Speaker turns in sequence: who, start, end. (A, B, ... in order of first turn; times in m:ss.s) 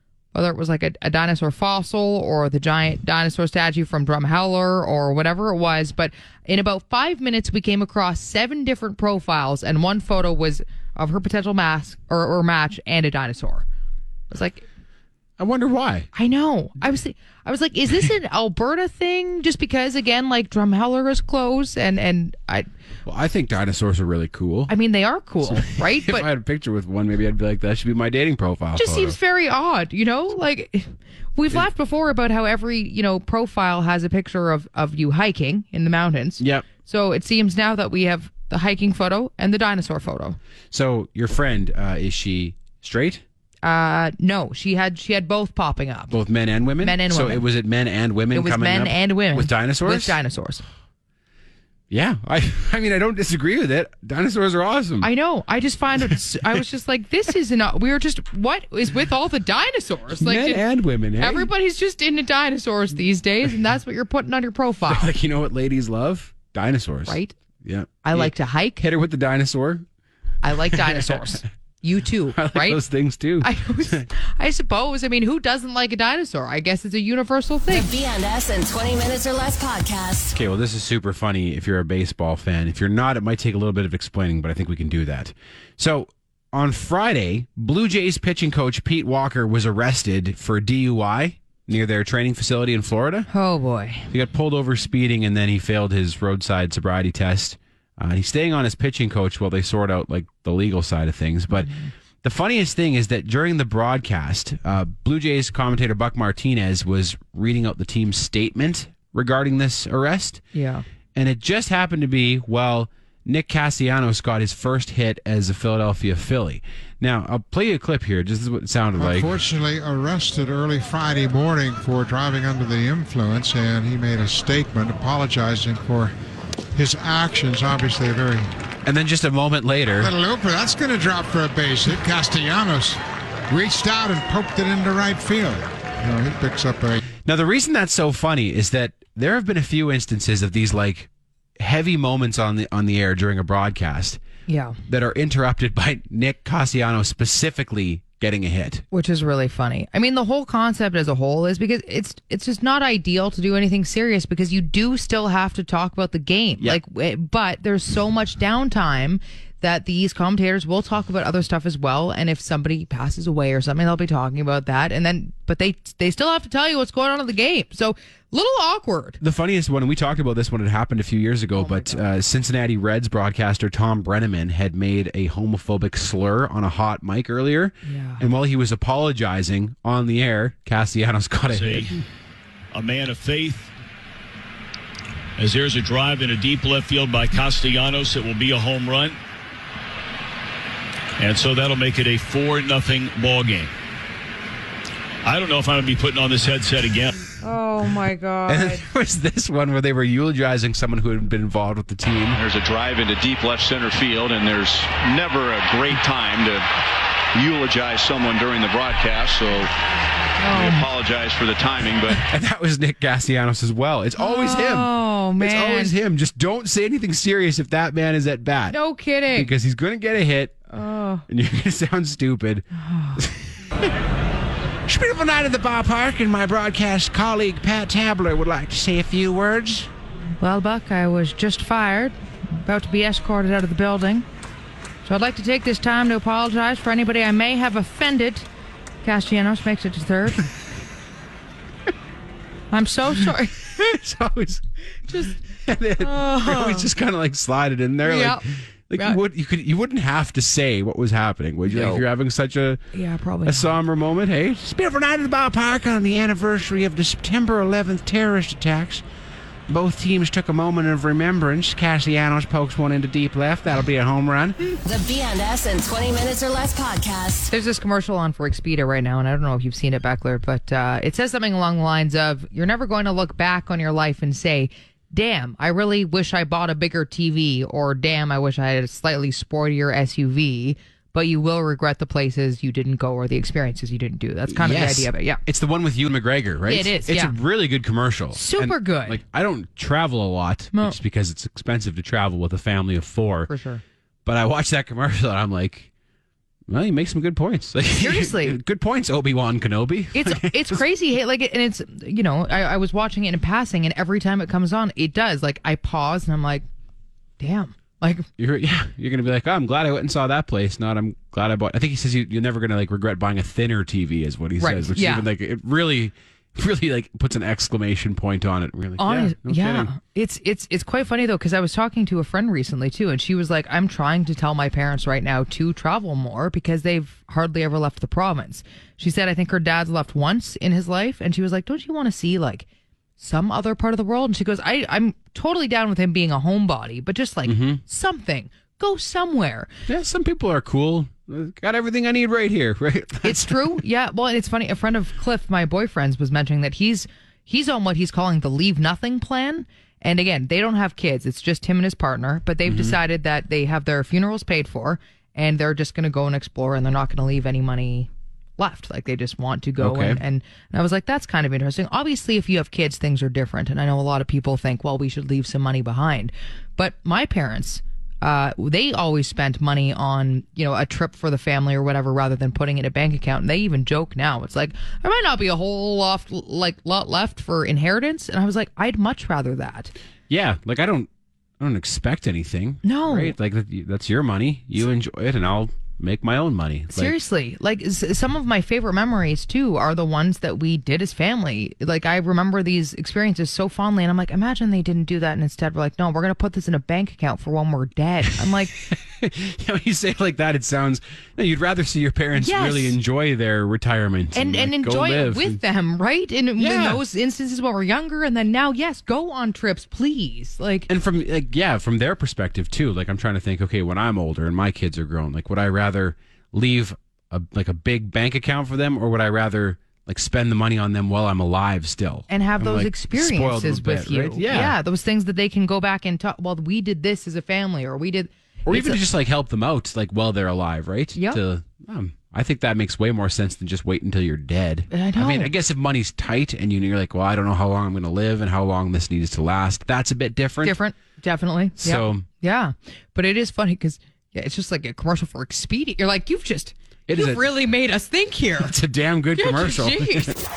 0:00.3-0:13.7 A
0:14.3-0:14.6 A
0:15.4-0:16.1 B
0:16.1-0:22.7 A
0:23.1-0:24.7 B
0:24.7-0:26.3 A
0:25.4-0:29.2 B
0:28.8-0:40.4 A
0:36.4-0:36.7 B
0:40.7-0:43.2 B
0:43.6-0:46.2 A
0:46.1-0:50.2 B
0:46.8-0:47.4 A
0:48.3-0:50.6 A
0:51.9-0:55.1 B
0:55.0-1:00.6 A
1:00.2-1:01.5 B
1:01.2-1:05.1 A
1:04.9-1:09.8 B
1:07.1-1:07.4 A
1:08.0-1:08.8 A
1:10.4-1:12.8 A
1:10.7-1:11.4 B
1:12.4-1:14.0 B
1:13.4-1:17.9 A
1:17.7-1:20.4 C
1:20.3-1:33.3 B
1:33.3-1:34.1 A
1:34.1-1:41.7 B
1:41.6-1:41.9 A
1:42.2-1:50.4 B
1:50.5-1:50.8 A
1:51.2-1:59.3 B
1:59.0-2:06.1 D
2:06.7-2:08.5 D
2:08.8-2:10.1 B
2:10.0-2:13.0 D
2:13.5-2:17.0 D
2:17.2-2:24.2 B
2:24.5-2:24.8 A
2:24.9-2:28.8 B
2:28.9-2:49.2 A
2:49.2-3:02.0 B
2:51.6-2:52.1 A
2:57.8-2:58.2 A
3:01.5-3:02.0 E
3:02.7-3:03.7 E
3:05.4-3:09.2 E
3:11.2-3:13.7 E
3:15.2-3:17.2 E
3:17.4-3:18.8 A
3:18.5-3:22.4 B
3:22.3-3:26.7 F
3:27.3-3:29.7 F
3:30.4-3:30.9 A
3:30.5-3:32.2 F
3:32.2-3:38.8 B
3:34.2-3:35.9 A
3:38.7-3:39.5 A
3:39.3-3:40.6 B
3:40.7-3:41.3 A
3:41.3-3:42.7 B
3:42.8-3:43.2 A
3:43.2-3:43.9 B
3:44.9-3:49.9 B
3:50.4-3:54.3 A
3:55.0-3:58.5 A
3:59.0-4:00.4 A
4:02.7-4:03.6 A
4:03.7-4:04.6 B
4:05.1-4:05.4 A
4:05.6-4:12.8 B
4:06.0-4:06.9 A
4:08.0-4:08.4 A
4:09.0-4:09.2 A
4:11.7-4:12.0 A
4:12.9-4:13.8 A
4:13.4-4:19.0 B
4:19.7-4:24.7 B
4:24.8-4:27.5 C
4:27.5-4:45.4 A
4:44.5-4:53.5 B
4:46.7-4:47.4 A
4:48.3-4:49.2 A
4:53.5-4:53.8 A
4:54.2-4:55.9 B
4:56.7-5:00.8 B
4:58.0-4:58.6 A
5:00.1-5:06.7 A
5:07.4-5:08.3 A
5:08.4-5:19.9 B
5:14.6-5:15.3 A
5:19.0-5:32.7 A
5:33.2-5:39.7 A
5:37.5-5:37.8 B
5:39.9-5:43.8 B
5:43.2-6:19.9 A
5:52.6-5:53.0 B
5:59.8-6:00.2 B
6:20.3-6:21.1 B
6:21.6-6:27.2 B
6:22.8-6:23.3 A
6:26.9-6:38.7 A
6:38.8-6:45.6 B
6:42.4-6:43.0 A
6:44.4-6:50.9 A
6:46.6-6:47.0 B
6:50.9-7:04.8 B
7:02.3-7:09.0 A
7:08.7-7:20.8 B
7:11.2-7:11.4 A
7:14.9-7:15.5 A
7:20.6-7:28.7 A
7:21.8-7:22.3 B
7:27.1-7:27.4 B
7:28.6-7:30.4 B
7:29.4-7:30.4 A